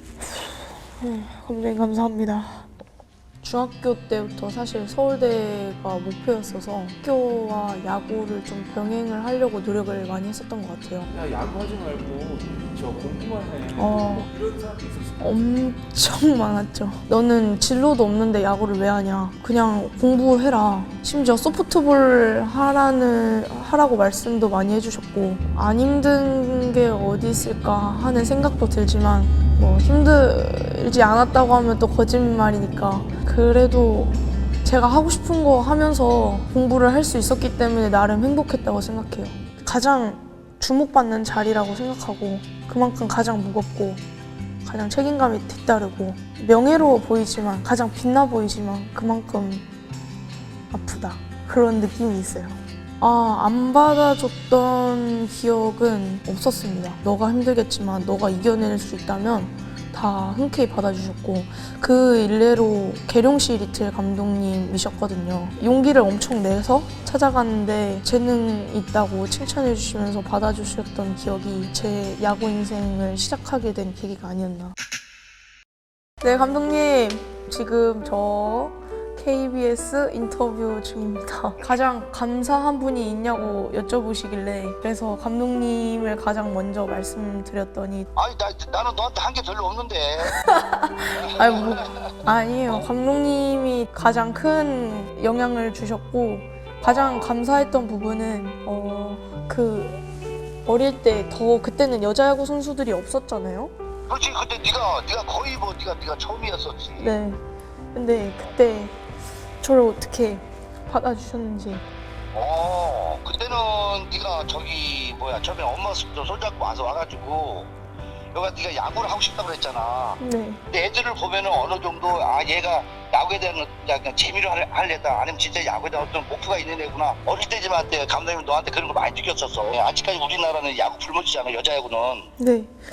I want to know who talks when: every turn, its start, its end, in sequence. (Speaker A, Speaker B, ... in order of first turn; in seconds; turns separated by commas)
Speaker A: 1.0-2.7, Speaker A: 3.4-11.1, Speaker B: 11.1-15.4, Speaker A: 13.7-14.3, Speaker A: 15.2-44.0, Speaker A: 44.6-49.6, Speaker A: 50.7-74.7, Speaker A: 76.2-88.1, Speaker C: 88.2-90.4, Speaker A: 90.3-100.0, Speaker C: 91.1-92.9, Speaker C: 96.8-97.3, Speaker A: 100.7-103.7, Speaker C: 104.1-107.2, Speaker A: 107.0-107.4, Speaker A: 107.9-109.0, Speaker A: 109.6-111.8, Speaker C: 112.3-117.7, Speaker C: 118.3-132.3, Speaker A: 120.2-120.6, Speaker A: 132.4-132.7